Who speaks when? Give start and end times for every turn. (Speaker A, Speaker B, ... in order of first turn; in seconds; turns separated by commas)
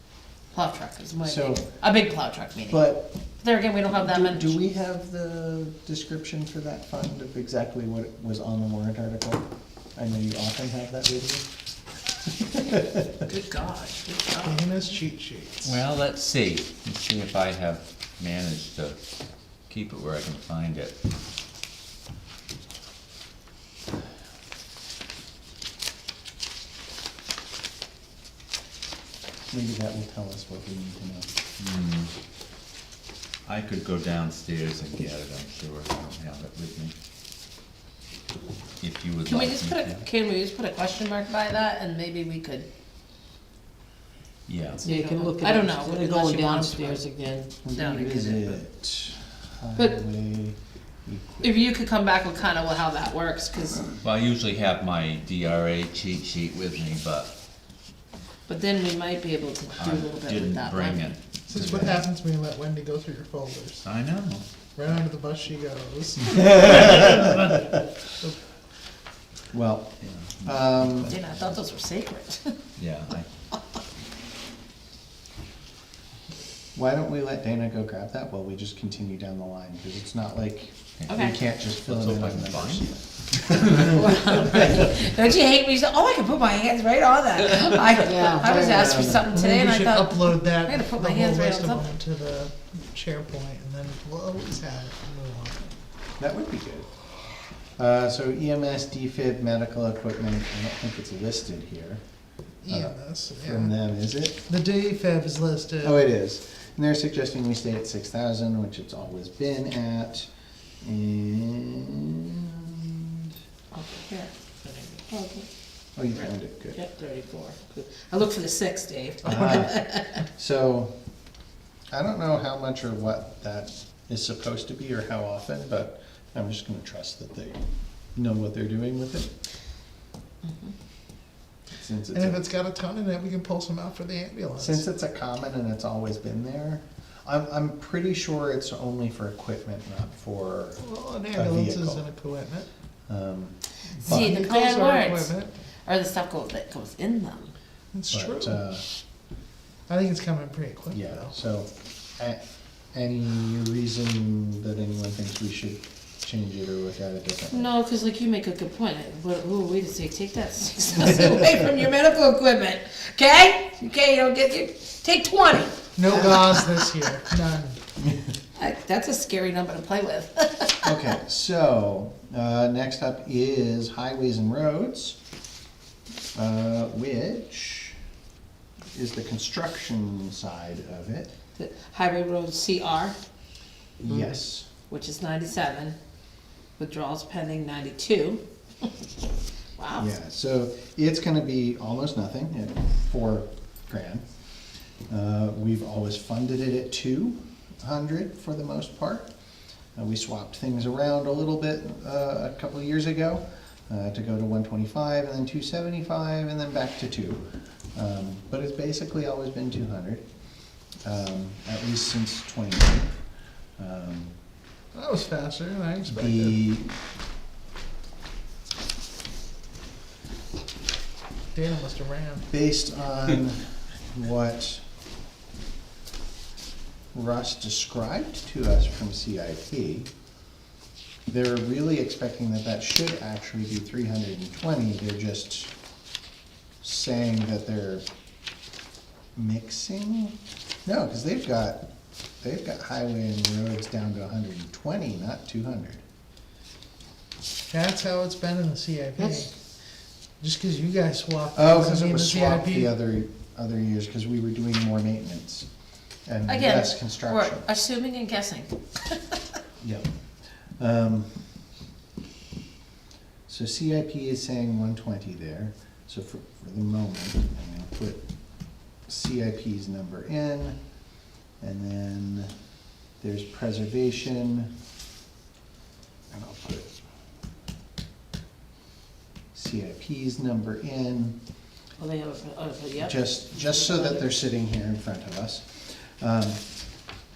Speaker A: 0.5-2.9, Speaker B: 1.2-1.6, Speaker B: 2.7-3.1, Speaker A: 3.4-4.6, Speaker B: 3.9-9.4, Speaker B: 9.9-11.4, Speaker B: 12.3-13.1, Speaker A: 13.2-14.9, Speaker C: 14.4-15.8, Speaker D: 15.6-19.0, Speaker D: 19.7-20.9, Speaker B: 29.5-31.3, Speaker D: 31.6-32.1, Speaker D: 33.5-36.9, Speaker D: 38.8-40.0, Speaker A: 39.2-42.7, Speaker D: 44.5-44.9, Speaker E: 44.8-47.5, Speaker A: 44.8-47.0, Speaker B: 47.6-51.5, Speaker A: 47.7-48.6, Speaker A: 51.4-53.9, Speaker D: 54.0-57.3, Speaker A: 58.5-61.1, Speaker D: 59.8-62.0, Speaker C: 61.5-63.8, Speaker D: 63.8-64.4, Speaker C: 64.8-66.8, Speaker D: 66.4-67.6, Speaker B: 66.5-67.3, Speaker B: 69.5-71.1, Speaker D: 70.0-71.5, Speaker A: 71.1-72.5, Speaker D: 72.8-73.3, Speaker B: 76.7-84.8, Speaker D: 81.0-84.0, Speaker A: 81.1-81.3, Speaker A: 83.8-91.8, Speaker E: 88.0-89.0, Speaker B: 88.4-89.3, Speaker C: 89.3-95.7, Speaker B: 96.2-96.9, Speaker B: 97.8-102.0, Speaker C: 102.6-103.7, Speaker B: 102.7-104.4, Speaker C: 104.5-106.0, Speaker B: 105.8-110.3, Speaker B: 110.8-113.3, Speaker A: 113.7-115.5, Speaker B: 116.0-116.8, Speaker A: 116.7-120.2, Speaker B: 119.2-120.9, Speaker B: 121.9-127.6, Speaker B: 128.1-129.3, Speaker A: 130.4-130.7, Speaker B: 131.7-132.4, Speaker C: 132.1-134.8, Speaker B: 134.6-140.8, Speaker C: 140.8-142.7, Speaker B: 141.3-142.0, Speaker B: 143.1-144.3, Speaker C: 144.0-145.5, Speaker A: 144.0-145.3, Speaker A: 145.8-147.5, Speaker C: 147.9-148.6, Speaker B: 148.1-148.8, Speaker C: 149.9-151.3, Speaker B: 150.9-152.4, Speaker B: 152.9-157.7, Speaker A: 157.5-166.6, Speaker C: 165.9-167.8, Speaker A: 168.6-170.9, Speaker B: 170.8-175.2, Speaker B: 176.3-177.9, Speaker B: 178.9-181.3, Speaker A: 181.5-183.2, Speaker B: 184.0-184.7, Speaker E: 184.1-184.3, Speaker A: 184.9-185.9, Speaker A: 186.8-188.9, Speaker A: 189.8-190.1, Speaker B: 190.0-194.2, Speaker B: 195.1-199.3, Speaker B: 199.9-210.2, Speaker B: 211.0-213.1, Speaker B: 213.8-214.3, Speaker C: 214.9-216.6, Speaker B: 216.1-216.9, Speaker C: 221.5-222.4, Speaker B: 222.5-224.8, Speaker B: 227.1-230.1, Speaker B: 231.3-235.7, Speaker B: 236.8-238.1, Speaker B: 239.3-241.8, Speaker B: 242.4-246.0, Speaker C: 247.7-249.5, Speaker E: 249.2-249.5, Speaker C: 250.4-252.9, Speaker B: 251.5-255.7, Speaker B: 256.2-257.7, Speaker A: 256.5-259.4, Speaker B: 259.8-260.1, Speaker B: 260.8-261.3, Speaker B: 263.5-268.2, Speaker B: 269.1-270.8, Speaker B: 271.6-272.5, Speaker B: 273.2-274.7, Speaker B: 276.3-276.9, Speaker B: 279.5-281.4, Speaker A: 282.0-284.3, Speaker B: 283.0-286.6